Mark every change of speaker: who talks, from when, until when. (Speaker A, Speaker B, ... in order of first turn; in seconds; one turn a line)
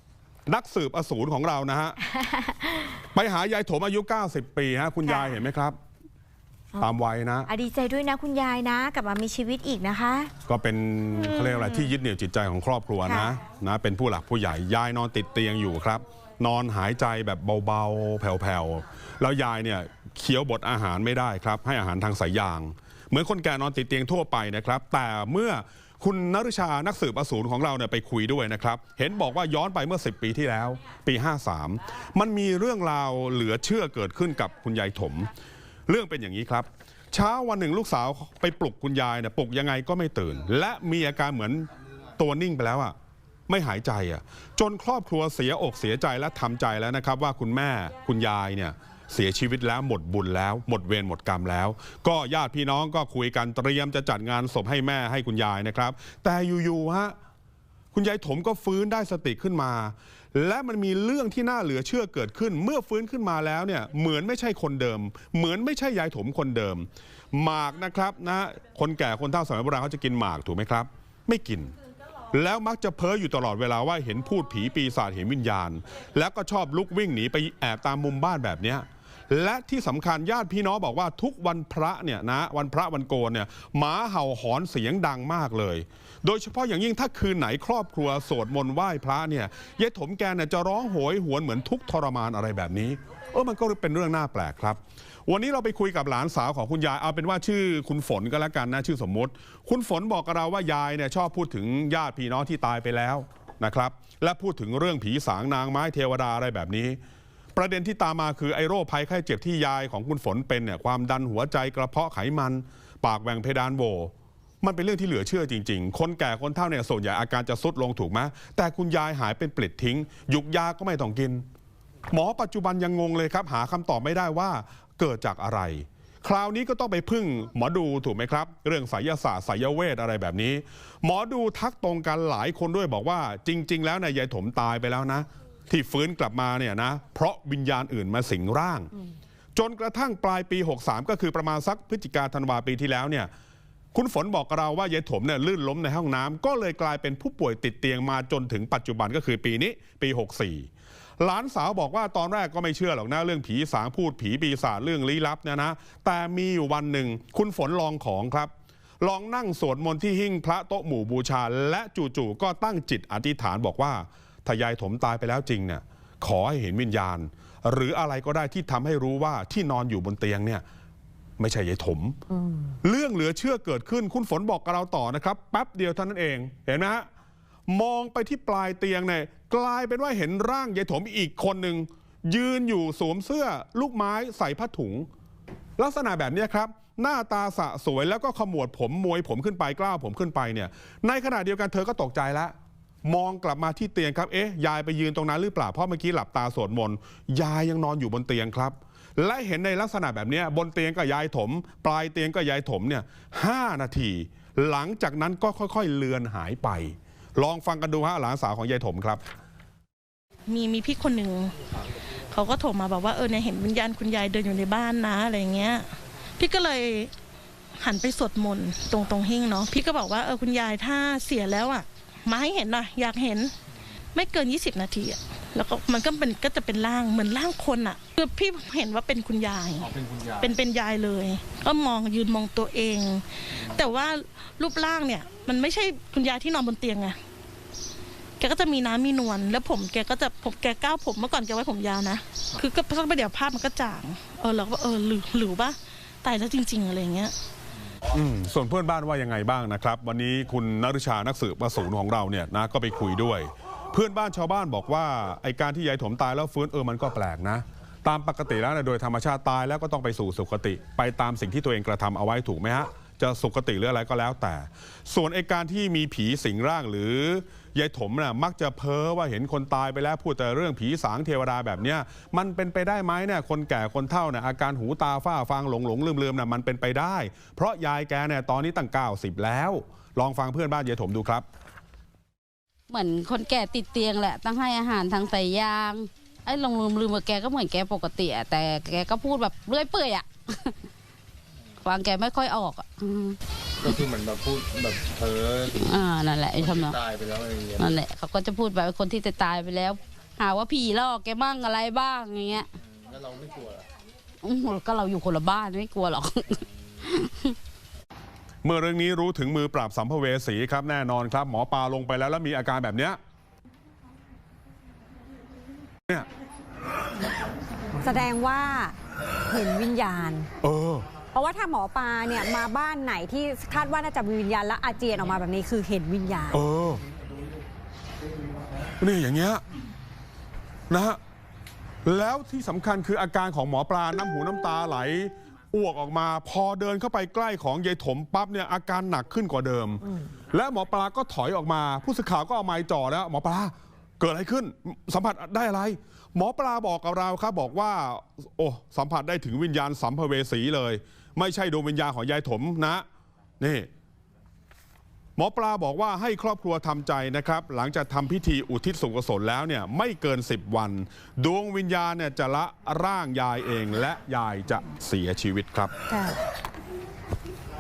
Speaker A: 0.5-2.0
Speaker B: 2.1-2.9
Speaker A: 3.1-5.8
Speaker B: 5.0-5.3
Speaker A: 6.8-7.5
Speaker B: 7.5-10.3
Speaker A: 10.5-35.3
Speaker B: 11.3-11.9
Speaker B: 13.1-13.3
Speaker A: 35.9-42.9
Speaker A: 43.5-57.1
Speaker A: 57.9-71.7
Speaker A: 72.3-107.0
Speaker A: 107.5-121.4
Speaker A: 122.1-138.9
Speaker A: 139.6-143.3
Speaker A: 143.9-150.7
Speaker A: 151.2-158.5
Speaker A: 159.0-170.6
Speaker A: 171.4-172.2
Speaker A: 172.8-177.1
Speaker A: 177.7-185.1
Speaker A: 185.8-192.5
Speaker A: 193.1-209.2
Speaker C: 210.5-211.6
Speaker C: 212.2-217.1
Speaker C: 217.8-223.5
Speaker C: 224.1-237.2
Speaker D: 229.8-230.6
Speaker C: 238.4-247.3
Speaker A: 248.1-281.4
Speaker E: 282.9-290.9
Speaker E: 291.8-293.4
Speaker D: 293.8-296.0
Speaker E: 295.7-297.0
Speaker D: 296.6-298.0
Speaker E: 297.8-302.7
Speaker D: 302.8-303.9
Speaker E: 304.4-307.6
Speaker A: 308.6-313.2
Speaker F: 318.0-318.9
Speaker F: 319.5-320.5
Speaker A: 320.6-321.1
Speaker F: 321.3-326.6
Speaker A: 326.5-327.0
Speaker A: 329.0-329.6
Speaker A: 330.9-331.2
Speaker A: 332.1-353.1
Speaker A: 353.6-353.9
Speaker A: 355.4-365.9
Speaker F: 366.1-366.4